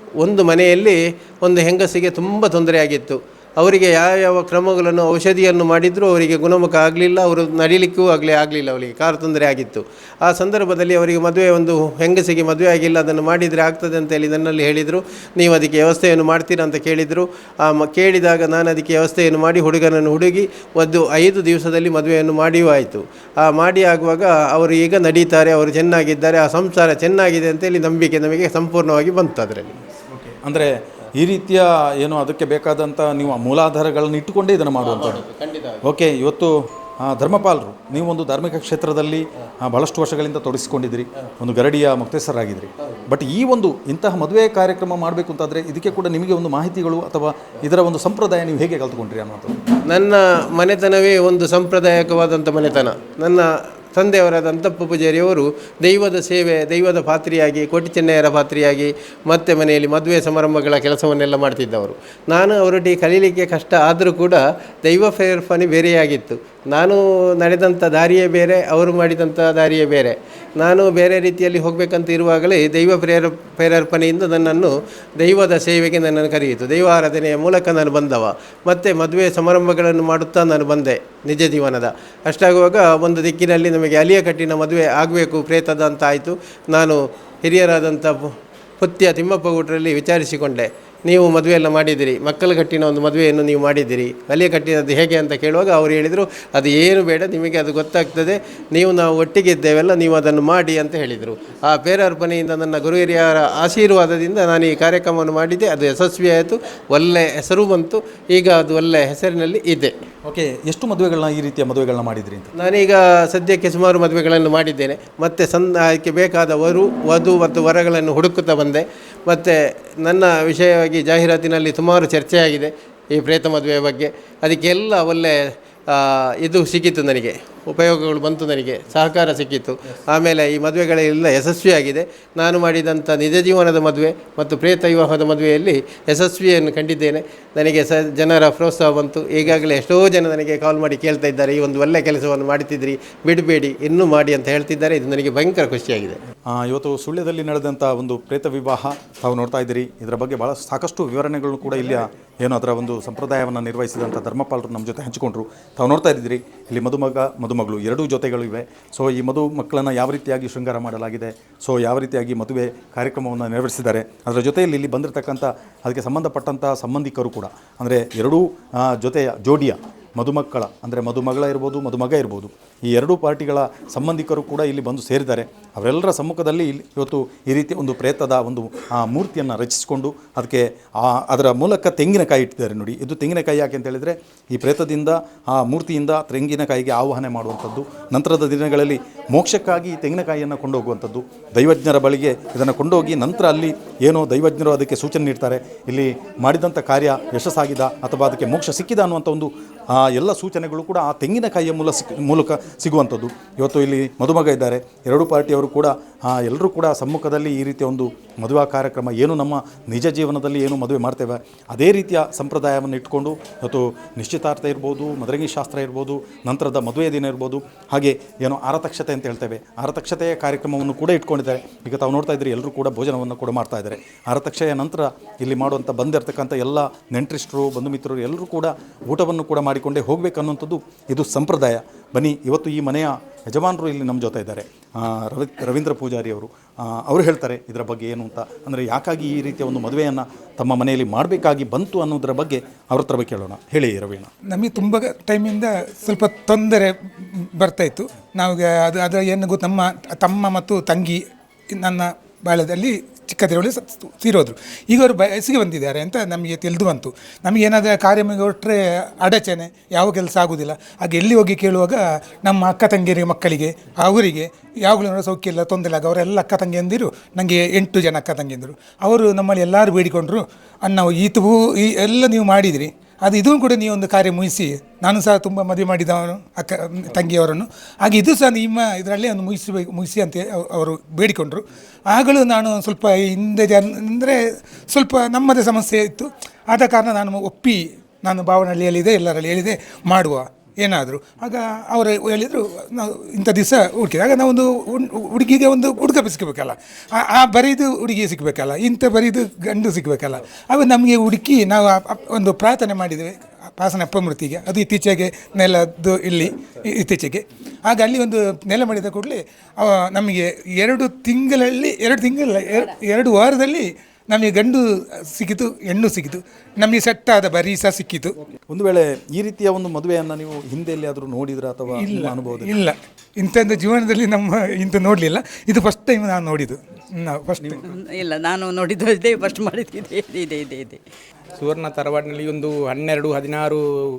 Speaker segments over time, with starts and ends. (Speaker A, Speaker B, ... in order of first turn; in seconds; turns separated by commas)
Speaker A: 0.2-29.8, Speaker B: 30.1-35.2, Speaker A: 34.8-35.8, Speaker B: 35.8-49.6, Speaker A: 49.9-109.9, Speaker B: 110.2-112.5, Speaker A: 112.6-125.4, Speaker A: 125.9-146.2, Speaker B: 146.5-244.3, Speaker C: 244.5-251.2, Speaker C: 251.8-318.3, Speaker B: 318.7-322.7, Speaker C: 321.9-327.8, Speaker D: 328.1-331.0, Speaker E: 331.6-333.8